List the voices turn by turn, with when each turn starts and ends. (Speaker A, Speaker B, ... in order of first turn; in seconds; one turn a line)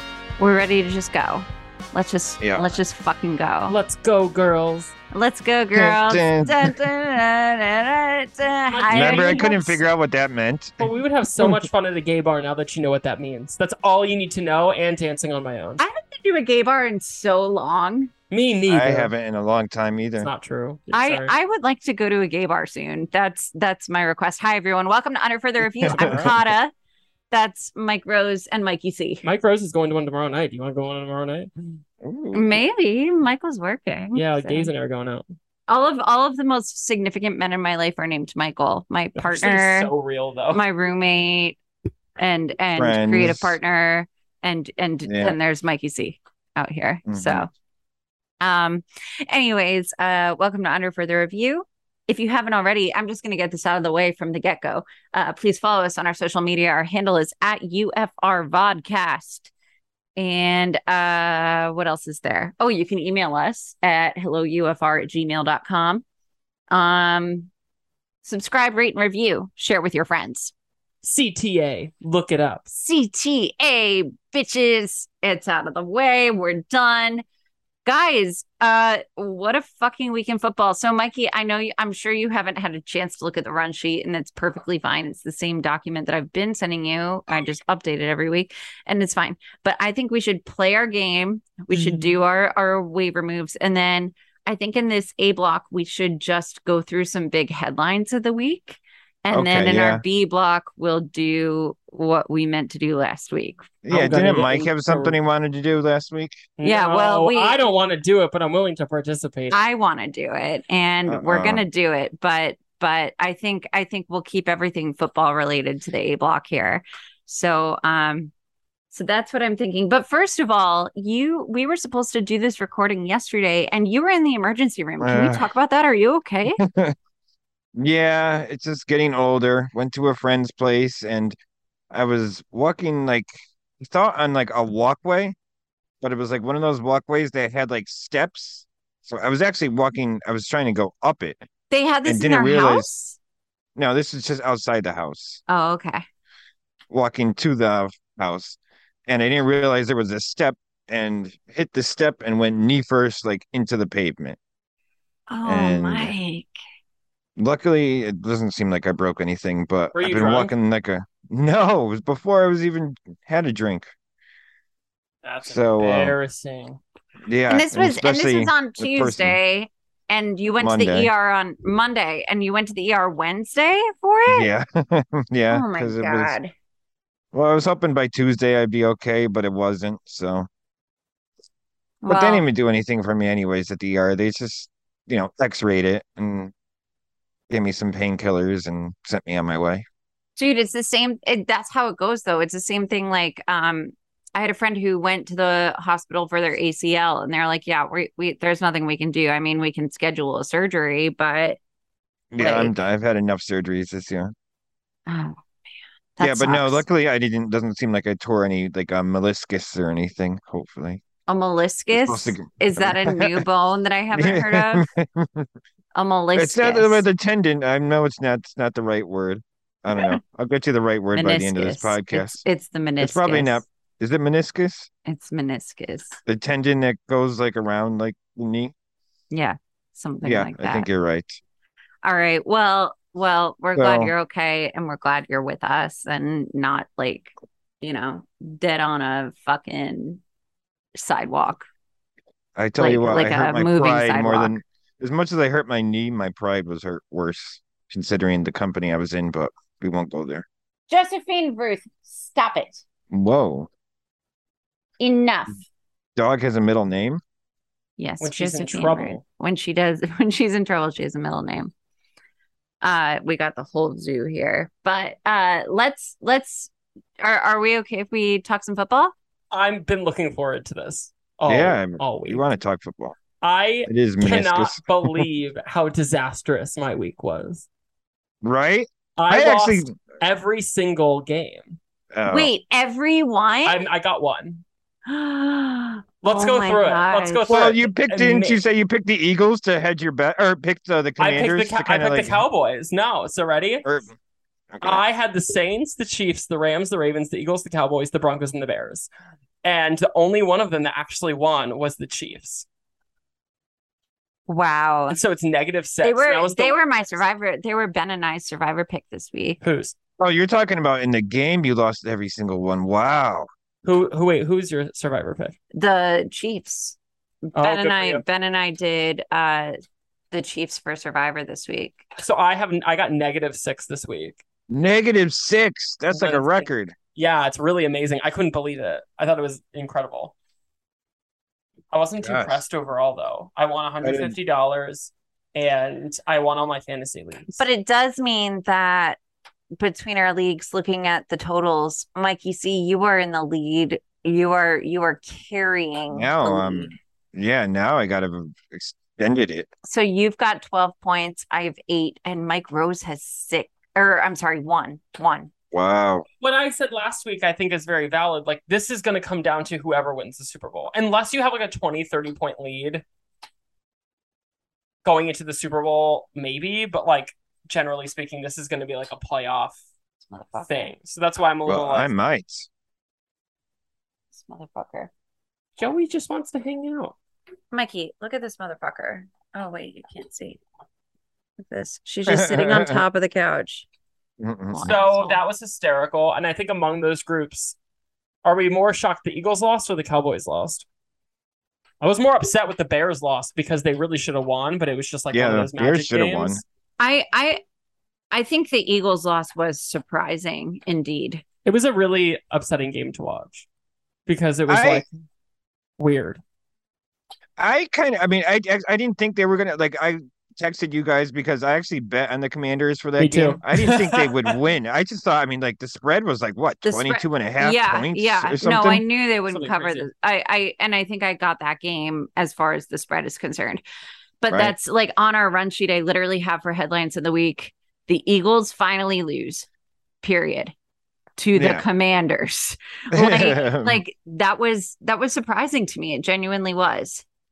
Speaker A: 0.4-3.8
Speaker B: 2.4-2.6
Speaker C: 3.7-4.9
Speaker A: 5.1-9.8
Speaker B: 5.7-6.8
Speaker C: 8.7-9.6
Speaker B: 8.9-11.7
Speaker C: 10.8-15.8
Speaker A: 15.8-18.1
Speaker C: 18.3-19.1
Speaker B: 18.7-20.3
Speaker C: 20.2-21.4
Speaker A: 20.9-26.7
Speaker B: 25.8-26.3
Speaker C: 25.9-26.3
Speaker A: 27.3-29.2
Speaker C: 29.2-31.5
Speaker B: 32.0-32.6
Speaker A: 32.3-34.7
Speaker C: 34.1-35.2
Speaker A: 35.7-39.9
Speaker C: 39.1-40.6
Speaker A: 40.5-41.6
Speaker A: 42.2-47.5
Speaker B: 42.8-43.6
Speaker B: 45.0-45.4
Speaker B: 47.1-47.5
Speaker A: 48.4-59.5
Speaker A: 60.2-66.0
Speaker A: 66.7-67.5
Speaker A: 68.2-70.5
Speaker C: 71.0-72.8
Speaker A: 72.8-77.2
Speaker A: 77.8-103.7
Speaker C: 91.7-92.2
Speaker B: 99.3-100.0
Speaker B: 103.8-106.4
Speaker C: 103.9-105.2
Speaker C: 106.6-109.6
Speaker A: 106.6-107.6
Speaker A: 109.5-118.3
Speaker B: 111.1-111.6
Speaker A: 118.9-126.6
Speaker B: 125.0-125.5
Speaker B: 126.6-127.0
Speaker B: 127.8-131.4
Speaker B: 131.9-135.3
Speaker B: 136.0-141.4
Speaker A: 141.7-143.2
Speaker B: 142.1-142.9
Speaker B: 143.8-145.4
Speaker A: 145.5-146.0
Speaker B: 146.9-154.4
Speaker A: 155.3-156.5
Speaker B: 155.4-156.1
Speaker B: 157.4-163.9
Speaker C: 159.9-160.5
Speaker C: 165.2-166.8
Speaker B: 165.4-166.2
Speaker B: 167.2-169.4
Speaker A: 167.5-174.5
Speaker B: 170.6-171.1
Speaker B: 174.3-176.3
Speaker A: 175.5-176.5
Speaker B: 177.3-180.5
Speaker A: 182.0-182.4
Speaker B: 182.1-186.5
Speaker B: 187.5-189.8
Speaker A: 190.4-201.6
Speaker B: 202.3-204.3
Speaker A: 202.4-202.7
Speaker A: 205.1-205.4
Speaker A: 206.2-206.8
Speaker B: 206.2-211.0
Speaker A: 211.3-214.9
Speaker B: 211.9-213.4
Speaker B: 214.1-215.5
Speaker A: 215.9-217.0
Speaker B: 216.3-222.4
Speaker A: 221.1-223.6
Speaker B: 223.0-224.9
Speaker A: 225.1-226.2
Speaker B: 226.2-228.7
Speaker A: 229.3-230.9
Speaker B: 230.2-231.4
Speaker A: 232.0-240.2
Speaker B: 233.8-234.1
Speaker A: 240.9-241.7
Speaker B: 242.6-250.4
Speaker A: 242.8-244.6
Speaker A: 250.9-252.8
Speaker B: 253.1-253.7
Speaker A: 255.0-255.6
Speaker B: 256.1-257.2
Speaker A: 258.0-261.7
Speaker C: 258.2-259.2
Speaker A: 262.8-266.7
Speaker A: 267.2-269.1
Speaker C: 269.5-272.4
Speaker B: 271.5-273.2
Speaker C: 273.4-277.6
Speaker B: 273.9-275.2
Speaker B: 278.4-279.9
Speaker C: 279.2-281.8
Speaker B: 282.1-282.5
Speaker A: 282.3-283.8
Speaker C: 283.6-284.6
Speaker A: 285.1-287.5
Speaker C: 286.2-288.6
Speaker B: 287.5-292.4
Speaker C: 291.2-293.9
Speaker B: 293.8-294.1
Speaker B: 294.7-295.0
Speaker C: 294.8-299.1
Speaker C: 299.6-302.6
Speaker A: 304.5-305.2
Speaker C: 305.1-306.8
Speaker A: 306.0-309.6
Speaker C: 309.6-309.9
Speaker B: 310.2-313.5
Speaker C: 313.8-315.6
Speaker A: 315.7-319.7
Speaker C: 317.6-318.2
Speaker A: 320.3-322.0
Speaker C: 322.2-324.4
Speaker B: 324.7-326.9
Speaker C: 326.1-330.3
Speaker C: 331.9-337.6
Speaker B: 332.2-332.6
Speaker B: 334.0-334.3
Speaker A: 337.6-339.2
Speaker A: 339.8-347.0
Speaker B: 346.1-349.7
Speaker A: 349.8-355.5
Speaker B: 355.7-356.2
Speaker C: 356.4-363.0
Speaker C: 365.0-369.8
Speaker A: 370.3-370.9
Speaker C: 370.6-372.1
Speaker B: 371.6-372.7
Speaker A: 374.3-375.1
Speaker C: 375.8-377.1
Speaker A: 377.7-380.6
Speaker A: 381.6-383.9
Speaker B: 382.3-383.0
Speaker B: 384.4-384.9
Speaker A: 384.7-385.4
Speaker C: 384.8-387.8
Speaker C: 388.4-390.8
Speaker C: 392.0-396.6
Speaker B: 395.3-396.6
Speaker A: 397.0-397.6
Speaker A: 398.3-401.4
Speaker C: 401.6-403.6
Speaker C: 404.3-405.1
Speaker B: 404.7-405.0
Speaker C: 406.0-406.4
Speaker B: 407.6-419.0
Speaker C: 413.2-414.5
Speaker A: 416.8-423.8
Speaker C: 419.5-420.1
Speaker A: 424.4-429.7
Speaker A: 430.2-430.7
Speaker A: 431.4-437.2
Speaker B: 431.5-431.8
Speaker B: 433.1-434.0